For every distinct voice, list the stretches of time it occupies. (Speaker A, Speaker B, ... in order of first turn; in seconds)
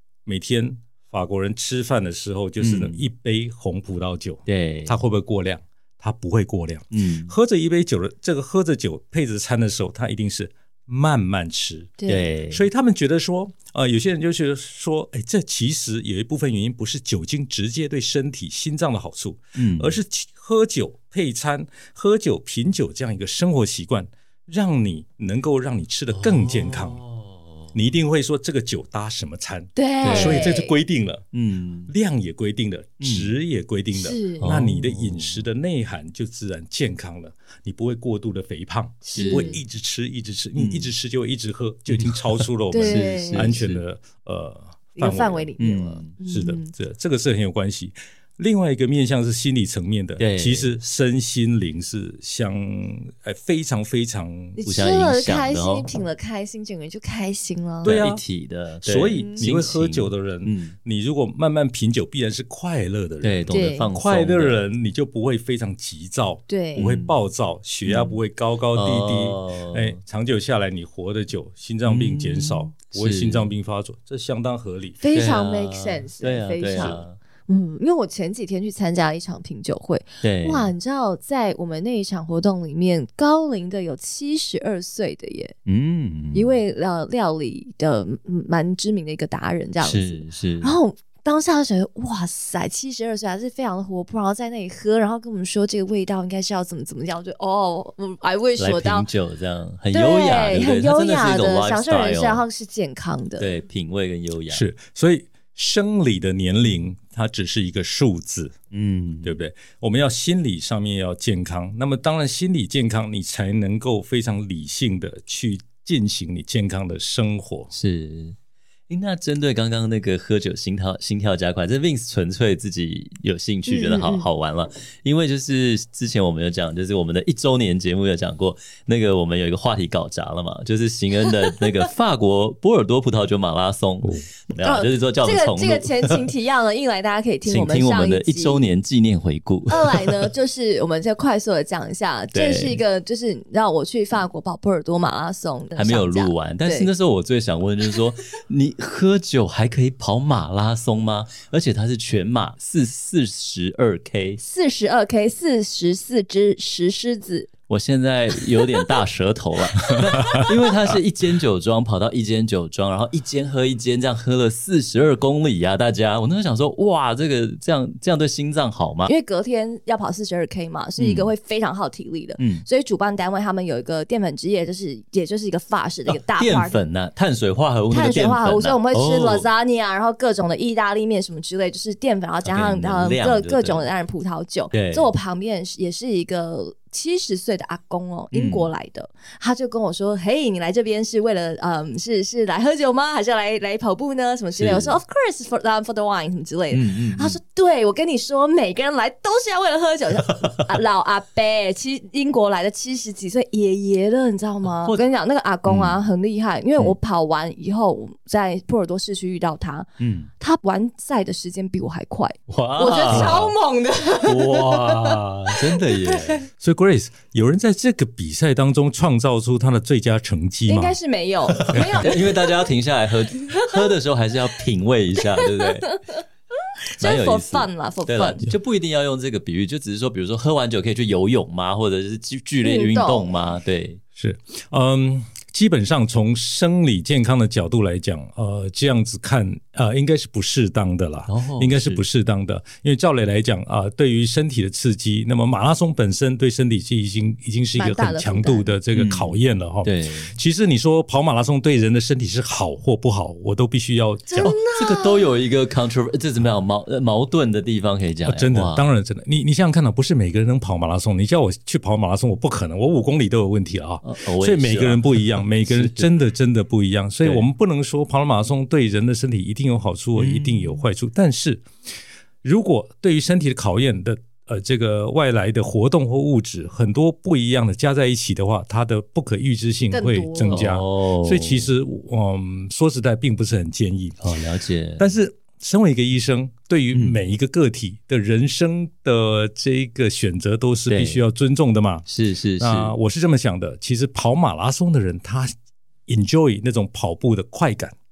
Speaker A: 0.2-11.9, 12.5-27.0, 27.7-31.2, 31.9-45.5, 46.2-54.6, 57.8-58.2, 58.8-75.0, 76.7-77.0, 104.5-108.5, 109.2-117.7, 216.5-220.9, 221.7-222.0, 234.2-254.5, 258.2-271.6, 272.4-284.2, 285.0-292.1, 292.6-295.5, 296.1-297.9
Speaker B: 2.6-3.0, 4.5-5.0, 6.9-7.3, 12.1-12.6, 19.6-20.0, 26.1-27.7, 30.0-30.5, 31.3-31.9, 33.0-33.3, 34.4-35.4, 39.1-39.5, 40.5-40.9, 41.9-43.8, 45.6-46.1, 50.2-50.7, 54.6-56.0, 57.8-60.8, 63.2-64.6, 66.8-67.1, 67.8-68.2, 68.7-70.0, 71.8-73.5, 75.1-77.2, 80.2-80.7, 85.7-86.6, 89.8-90.8, 98.6-102.4, 103.4-104.6, 108.7-109.4, 117.7-118.3, 118.9-136.3, 137.4-140.3, 142.3-142.8, 145.8-154.4, 157.7-169.1, 171.0-171.3, 172.4-172.6, 176.1-179.5, 182.4-183.9, 184.7-185.1, 188.3-188.7, 194.5-195.0, 196.7-197.4, 200.3-200.6, 204.7-205.0, 205.7-206.0, 210.0-210.3, 212.5-213.5, 214.2-216.4, 221.6-226.0, 227.0-234.0, 241.3-242.0, 248.9-250.3, 254.4-258.9, 264.0-266.1, 270.1-270.8, 280.5-281.7, 284.2-285.1, 290.9-291.2, 292.1-292.9
Speaker C: 12.0-12.3, 29.8-30.7, 33.9-34.6, 39.0-39.6, 42.7-43.6, 45.0-46.7, 54.6-58.0, 59.1-59.5, 63.5-63.9, 66.5-66.9, 75.0-85.5, 86.3-99.1, 99.9-103.6, 123.7-124.3, 134.6-138.6, 139.7-146.9, 154.4-157.5, 159.9-160.5, 169.1-176.8, 177.9-209.9, 210.4-216.4, 220.7-222.7, 223.3-223.8, 225.2-226.2, 227.0-228.4, 232.6-233.3, 247.8-248.7, 254.3-255.3, 279.9-280.7